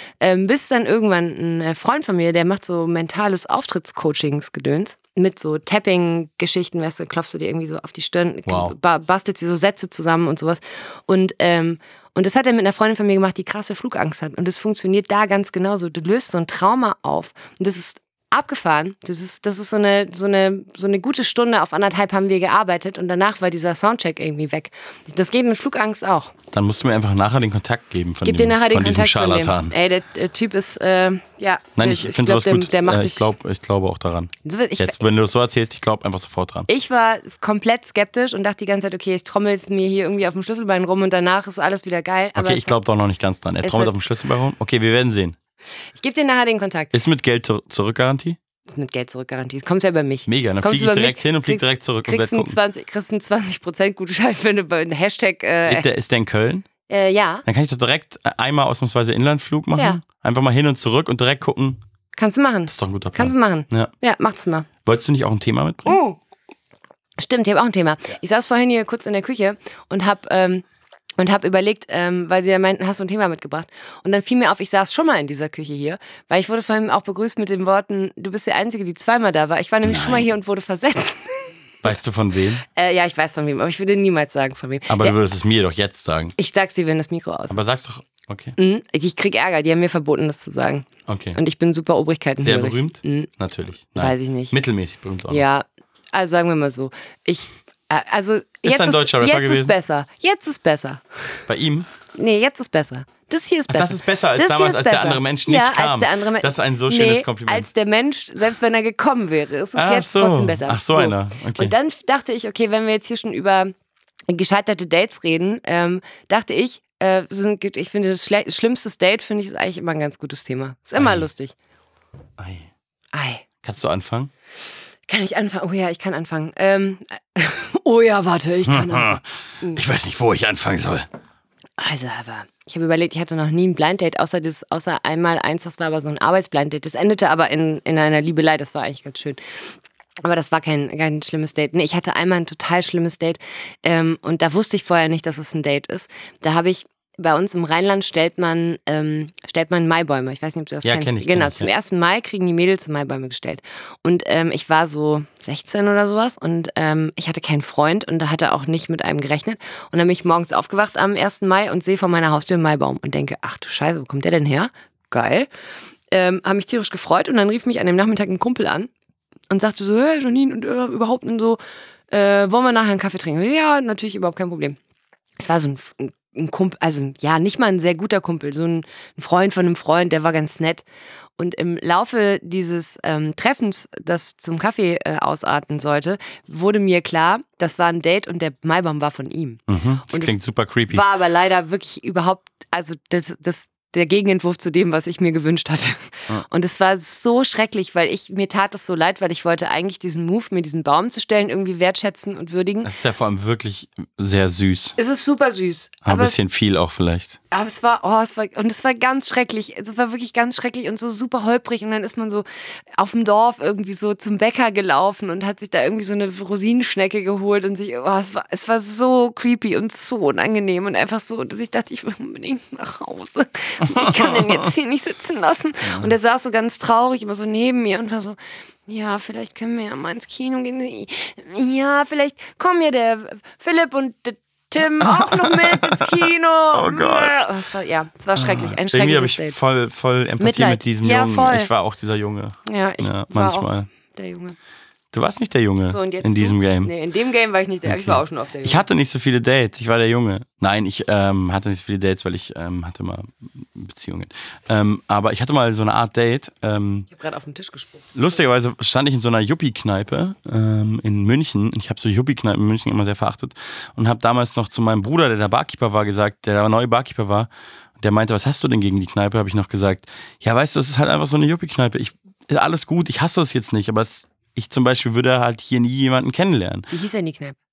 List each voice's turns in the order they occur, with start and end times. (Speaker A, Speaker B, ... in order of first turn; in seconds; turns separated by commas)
Speaker A: 0.2-26.3, Speaker B: 8.5-8.7, Speaker B: 26.5-29.7, Speaker A: 28.2-33.3, Speaker B: 31.8-36.7, Speaker A: 34.4-35.0, Speaker A: 36.7-42.7, Speaker B: 42.4-45.4, Speaker A: 43.6-43.9, Speaker A: 45.9-46.9, Speaker B: 46.9-48.4, Speaker A: 48.7-55.9, Speaker B: 50.3-52.6, Speaker B: 55.6-56.7, Speaker A: 56.9-57.5, Speaker B: 57.5-61.8, Speaker A: 59.7-60.0, Speaker A: 62.1-64.7, Speaker B: 62.7-63.9, Speaker B: 64.8-66.0, Speaker A: 65.9-66.2, Speaker A: 67.2-70.6, Speaker A: 71.2-81.5, Speaker B: 79.8-80.3, Speaker B: 81.8-82.6, Speaker A: 82.7-85.2, Speaker B: 84.9-86.3, Speaker A: 86.4-87.6, Speaker B: 87.5-88.5, Speaker A: 88.6-93.3, Speaker B: 91.1-91.4, Speaker B: 92.4-95.4, Speaker A: 94.0-94.5, Speaker A: 95.3-101.0, Speaker B: 98.6-99.7, Speaker B: 101.5-101.9, Speaker A: 102.1-113.7, Speaker B: 103.7-107.7, Speaker B: 109.7-111.7, Speaker A: 114.3-121.5, Speaker B: 121.0-121.2, Speaker B: 122.4-122.7, Speaker A: 123.1-123.4, Speaker B: 123.6-124.3, Speaker A: 125.1-129.8, Speaker B: 128.7-131.1, Speaker A: 131.8-139.4, Speaker A: 140.2-165.5, Speaker B: 150.8-151.7, Speaker A: 166.1-168.9, Speaker A: 169.5-171.6, Speaker A: 172.1-174.8, Speaker A: 175.4-180.8, Speaker A: 181.4-190.4, Speaker B: 189.7-191.0, Speaker A: 190.9-202.9, Speaker B: 202.8-205.0, Speaker A: 205.0-206.4, Speaker B: 206.0-207.4, Speaker A: 207.5-212.4, Speaker A: 213.0-239.6, Speaker B: 223.9-224.7, Speaker B: 225.8-226.1, Speaker B: 235.0-237.5, Speaker B: 238.3-243.9, Speaker A: 240.4-241.7, Speaker A: 242.7-244.6, Speaker B: 245.1-246.9, Speaker A: 245.9-248.8, Speaker B: 247.8-257.1, Speaker A: 257.1-258.1, Speaker B: 258.1-276.9, Speaker A: 276.9-277.6